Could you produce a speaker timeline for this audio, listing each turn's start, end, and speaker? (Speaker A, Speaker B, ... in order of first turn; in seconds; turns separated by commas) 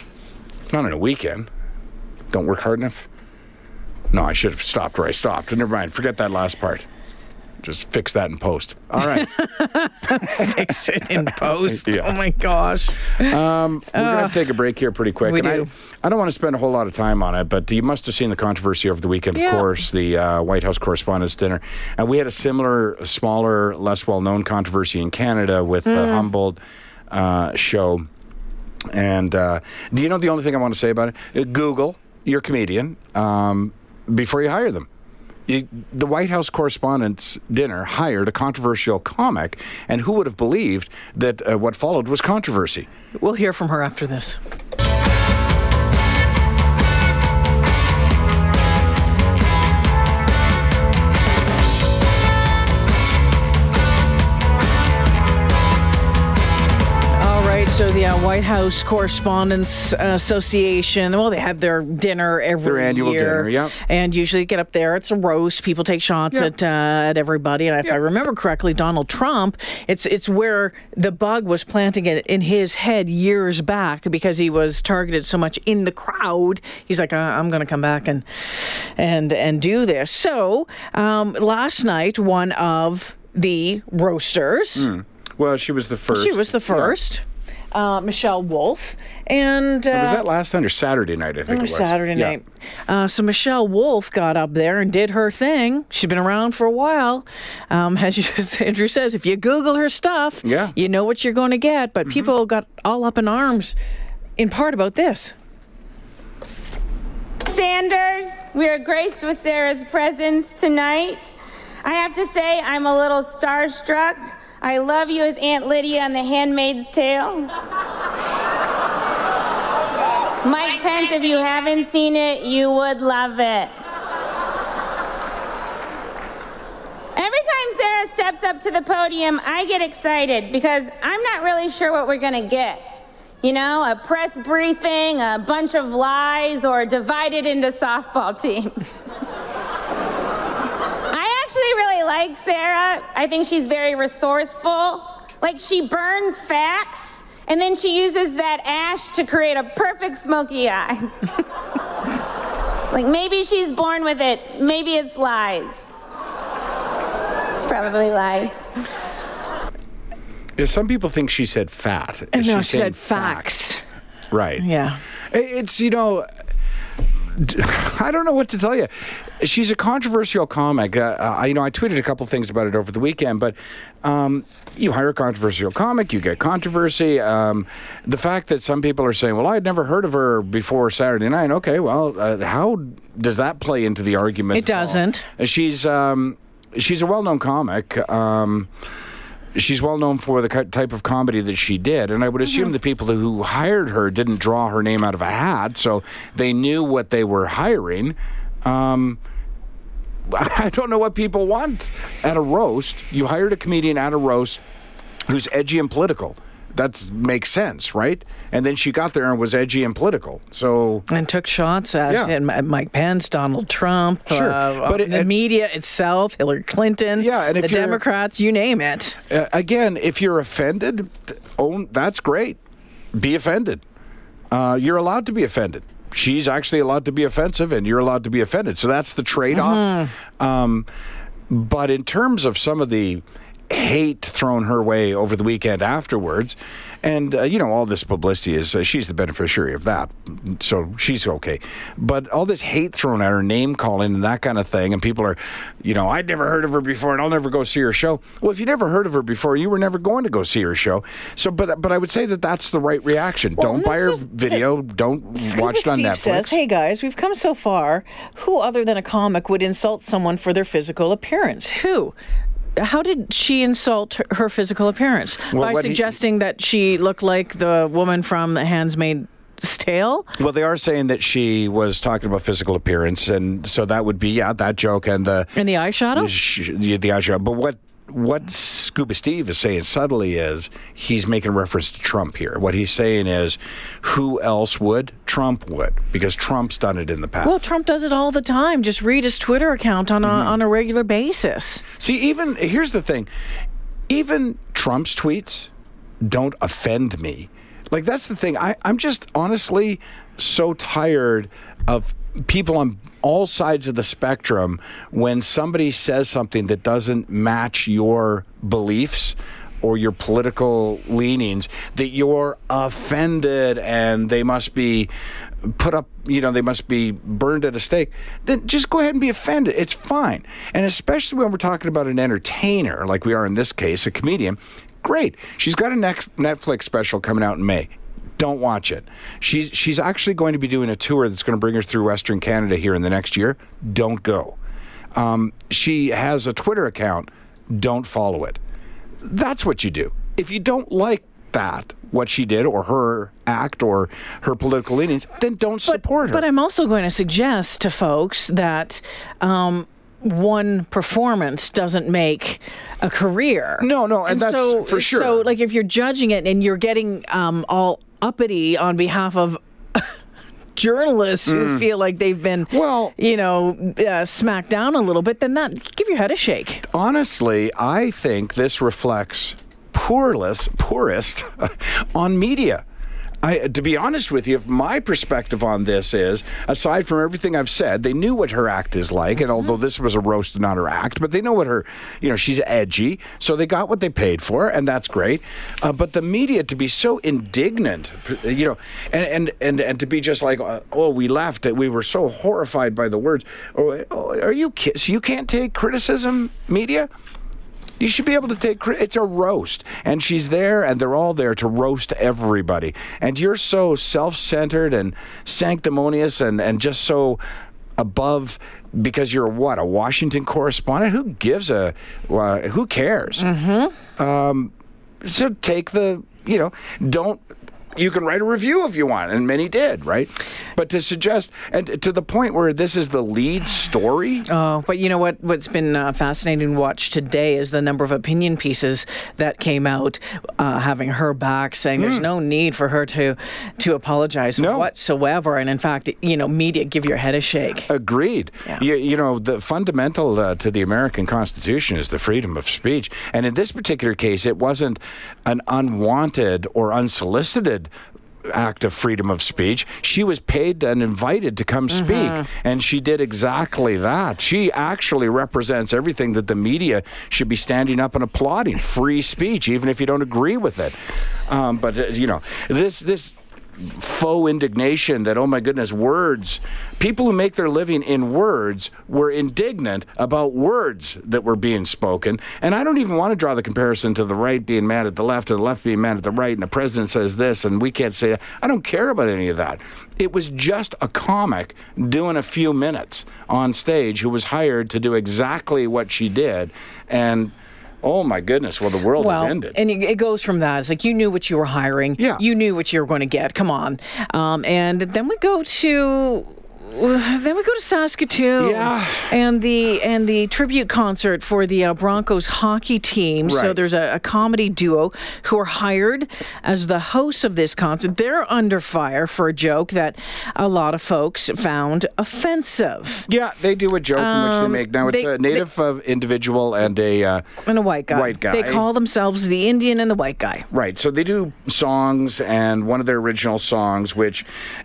Speaker A: 0.7-1.5, Speaker A: 2.3-3.1, Speaker A: 4.1-6.9, Speaker A: 7.6-9.3, Speaker B: 9.0-13.4, Speaker A: 11.7-12.2, Speaker A: 13.2-28.1, Speaker B: 13.9-14.4, Speaker B: 15.2-15.7, Speaker B: 19.3-19.7, Speaker B: 25.9-26.3, Speaker A: 28.9-34.9, Speaker A: 35.5-42.9, Speaker B: 43.2-44.4, Speaker B: 57.1-84.9, Speaker A: 62.6-63.8, Speaker A: 84.8-87.0, Speaker B: 86.1-90.2, Speaker A: 89.9-92.4, Speaker B: 91.5-103.8, Speaker A: 100.4-100.8, Speaker B: 104.4-105.3, Speaker C: 107.5-111.2, Speaker C: 111.8-117.5, Speaker C: 120.4-123.7, Speaker C: 127.2-132.8, Speaker C: 133.4-139.0, Speaker C: 141.1-151.1, Speaker C: 152.9-155.9, Speaker C: 157.6-158.6, Speaker A: 160.6-163.4, Speaker B: 162.3-163.8, Speaker A: 164.3-164.7, Speaker B: 164.6-165.0, Speaker A: 165.3-166.3, Speaker A: 167.3-188.7, Speaker B: 184.5-185.3, Speaker A: 189.6-199.2, Speaker A: 200.3-204.6, Speaker A: 205.3-211.1, Speaker B: 211.1-219.2, Speaker A: 214.3-215.3, Speaker A: 217.2-218.0, Speaker A: 219.3-222.6, Speaker A: 223.1-223.8, Speaker A: 224.5-230.9, Speaker B: 229.5-230.1, Speaker A: 231.5-256.6, Speaker B: 253.6-254.6, Speaker B: 255.4-262.1, Speaker B: 262.8-270.3, Speaker A: 265.5-266.2, Speaker A: 270.4-275.5, Speaker B: 275.6-276.3, Speaker A: 276.1-287.6, Speaker B: 287.4-291.8, Speaker A: 290.2-290.5, Speaker A: 292.0-293.3, Speaker A: 294.1-295.7, Speaker A: 296.2-315.1, Speaker A: 315.6-334.6, Speaker A: 335.1-338.6, Speaker A: 339.2-346.4, Speaker B: 345.9-360.1, Speaker A: 353.8-355.4, Speaker B: 360.8-366.9, Speaker A: 361.5-361.8, Speaker A: 362.7-363.1, Speaker A: 366.9-372.9, Speaker A: 373.4-397.1, Speaker A: 398.0-407.4, Speaker A: 408.0-413.5, Speaker B: 413.4-414.0, Speaker A: 414.2-417.4, Speaker A: 417.9-424.5, Speaker B: 424.5-437.9, Speaker A: 432.0-432.3, Speaker A: 434.6-434.9, Speaker A: 437.9-447.9, Speaker A: 448.4-460.9, Speaker B: 452.0-452.4, Speaker A: 461.5-489.8, Speaker B: 489.2-513.3, Speaker A: 492.2-492.4, Speaker A: 498.6-499.3, Speaker A: 503.4-503.8, Speaker A: 513.3-517.5, Speaker B: 514.2-515.6, Speaker B: 517.7-520.7, Speaker A: 518.1-518.9, Speaker A: 520.7-524.5